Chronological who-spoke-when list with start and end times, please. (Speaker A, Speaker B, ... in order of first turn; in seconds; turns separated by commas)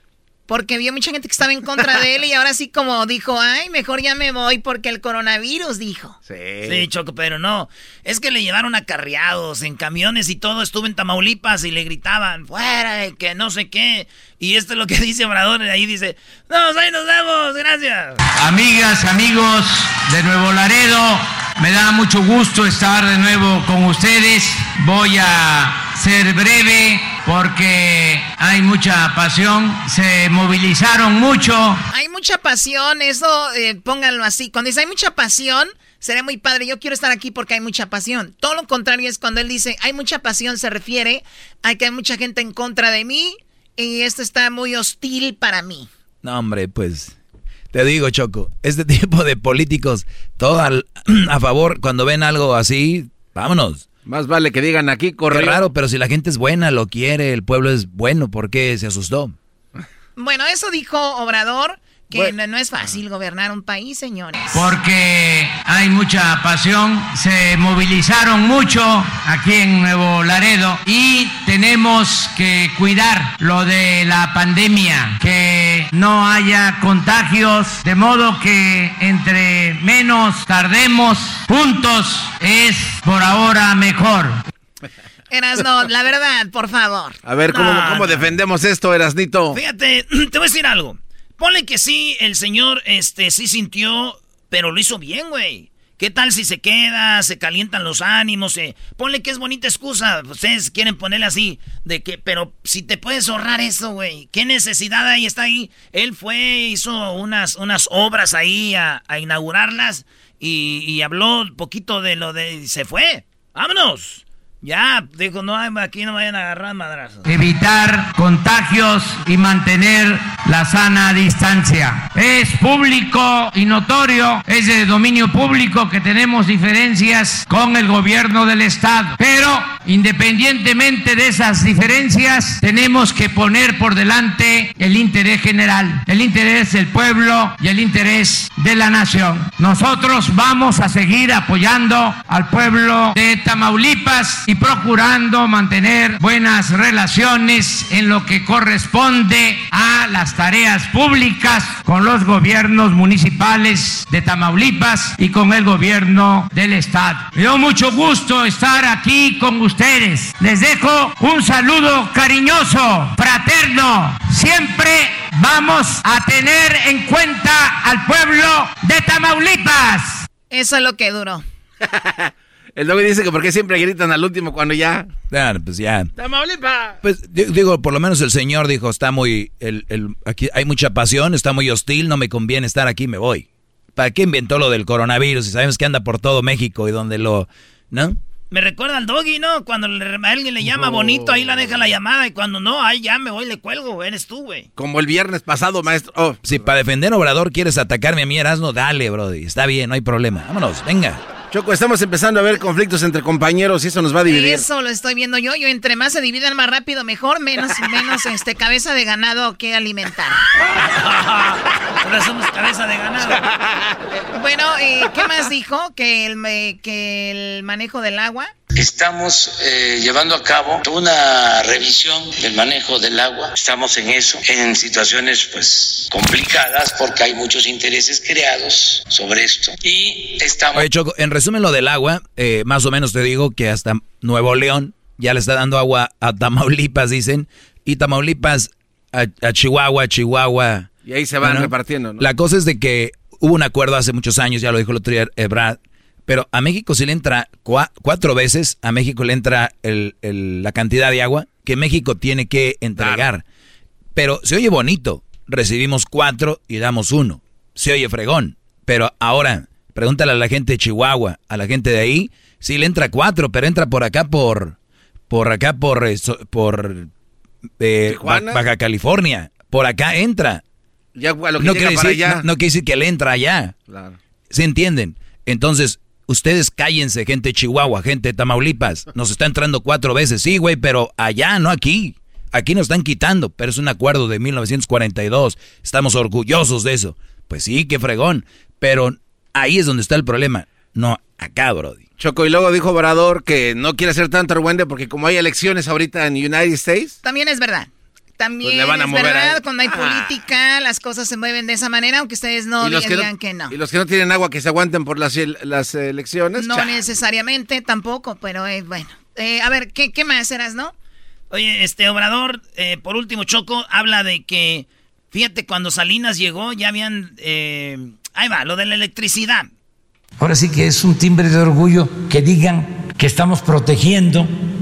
Speaker A: 0.5-6.2, Speaker B: 6.3-6.8, Speaker C: 6.6-18.2, Speaker D: 18.4-31.8, Speaker A: 31.9-45.9, Speaker E: 46.2-47.1, Speaker E: 47.7-53.9, Speaker B: 54.0-55.6, Speaker E: 55.3-59.3, Speaker A: 60.1-64.5, Speaker D: 64.5-84.4, Speaker A: 85.3-87.2, Speaker B: 87.2-89.6, Speaker C: 87.5-88.3, Speaker C: 89.5-117.2, Speaker D: 117.2-170.2, Speaker A: 170.5-171.4, Speaker B: 171.8-175.1, Speaker E: 175.3-176.1, Speaker B: 176.2-177.0, Speaker E: 177.0-188.2, Speaker C: 188.5-194.7, Speaker B: 194.8-196.6, Speaker E: 196.4-201.2, Speaker B: 201.5-204.7, Speaker A: 204.3-210.4, Speaker C: 210.8-213.5, Speaker B: 213.4-213.8, Speaker A: 214.3-218.5, Speaker F: 218.7-230.8, Speaker E: 230.7-240.9, Speaker B: 241.1-242.2, Speaker E: 241.4-253.4, Speaker B: 253.0-253.2, Speaker E: 254.1-264.8, Speaker E: 265.3-267.1, Speaker E: 267.8-270.6, Speaker B: 268.1-268.6, Speaker B: 271.1-272.4, Speaker E: 271.6-273.8, Speaker B: 273.9-274.2, Speaker E: 274.5-292.0, Speaker B: 292.2-297.2, Speaker A: 297.2-303.8, Speaker B: 298.6-300.4, Speaker B: 302.8-307.1, Speaker A: 306.6-310.9, Speaker C: 311.5-319.7, Speaker G: 320.4-324.5